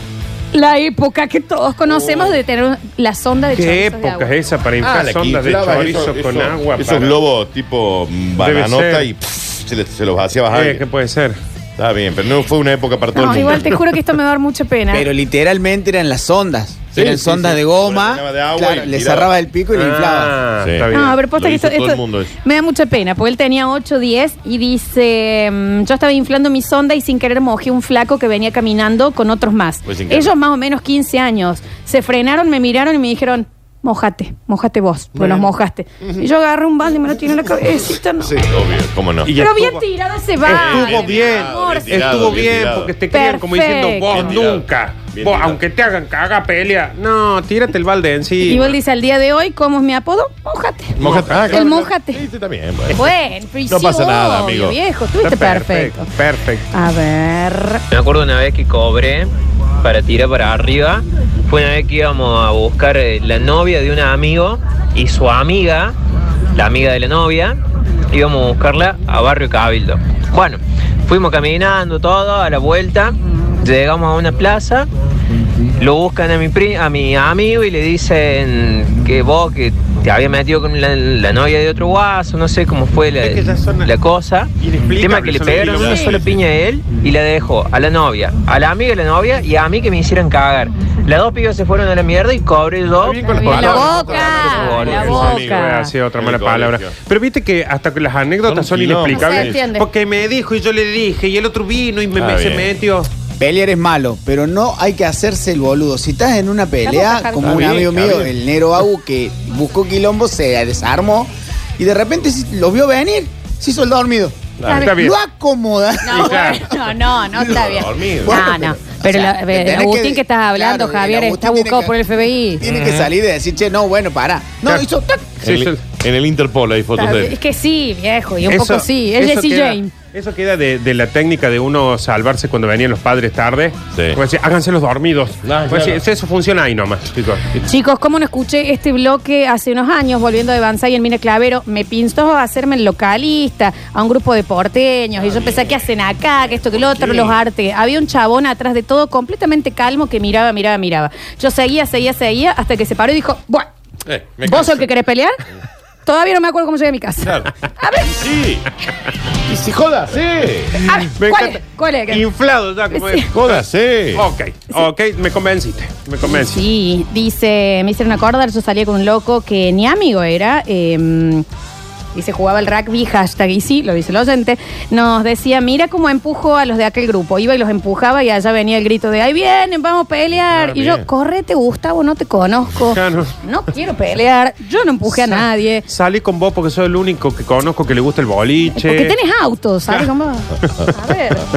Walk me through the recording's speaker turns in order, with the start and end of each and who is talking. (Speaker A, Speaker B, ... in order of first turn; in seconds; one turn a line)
Speaker A: 0.5-4.3
Speaker B: 2.0-2.3
Speaker B: 3.6-7.2
Speaker C: 4.8-10.8
Speaker B: 8.4-9.1
Speaker B: 10.5-11.4
Speaker C: 11.8-13.9
Speaker A: 13.1-15.1
Speaker D: 14.9-20.4
Speaker C: 16.9-19.3
Speaker B: 19.7-21.2
Speaker C: 20.6-22.3
Speaker A: 20.9-38.3
Speaker C: 29.9-30.3
Speaker C: 35.1-35.5
Speaker C: 38.2-39.3
Speaker B: 39.2-39.8
Speaker A: 39.3-42.2
Speaker B: 40.4-48.8
Speaker C: 40.5-42.9
Speaker A: 43.1-44.4
Speaker C: 44.1-45.6
Speaker A: 48.4-51.0
Speaker C: 51.0-53.1
Speaker B: 51.0-51.6
Speaker A: 51.5-52.2
Speaker A: 52.9-56.1
Speaker C: 53.7-54.8
Speaker B: 55.2-56.7
Speaker A: 56.7-57.8
Speaker E: 57.9-59.3
Speaker E: 59.8-66.0
Speaker E: 66.5-67.6
Speaker E: 68.1-74.9
Speaker E: 75.8-93.8
Speaker B: 83.2-83.9
Speaker B: 84.6-86.1
Speaker C: 85.4-86.4
Speaker B: 93.0-103.1
Speaker C: 93.1-96.9
Speaker A: 93.3-95.9
Speaker E: 94.5-95.2
Speaker C: 98.5-99.6
Speaker A: 99.1-99.9
Speaker C: 102.2-102.7
Speaker D: 103.4-116.6
Speaker A: 106.8-107.7
Speaker C: 107.4-108.3
Speaker C: 114.6-114.9
Speaker A: 114.7-115.0
Speaker B: 114.7-115.2
Speaker A: 116.0-122.6
Speaker B: 116.1-116.6
Speaker D: 117.4-125.3
Speaker C: 117.4-118.5
Speaker C: 122.6-123.1
Speaker C: 125.4-127.3
Speaker B: 125.4-125.8
Speaker A: 127.0-129.9
Speaker B: 128.5-137.4
Speaker C: 133.9-134.2
Speaker C: 135.4-136.0
Speaker A: 137.6-153.7
Speaker C: 146.7-147.4
Speaker C: 154.1-154.9
Speaker A: 154.4-155.4
Speaker A: 156.1-158.3
Speaker C: 157.2-157.5
Speaker C: 158.2-158.7
Speaker C: 159.5-160.8
Speaker B: 160.8-166.6
Speaker A: 160.8-162.3
Speaker A: 162.9-163.3
Speaker C: 163.3-164.2
Speaker A: 166.2-171.4
Speaker A: 172.2-185.8
Speaker C: 180.5-181.1
Speaker B: 182.9-183.3
Speaker B: 185.1-189.2
Speaker A: 188.7-191.4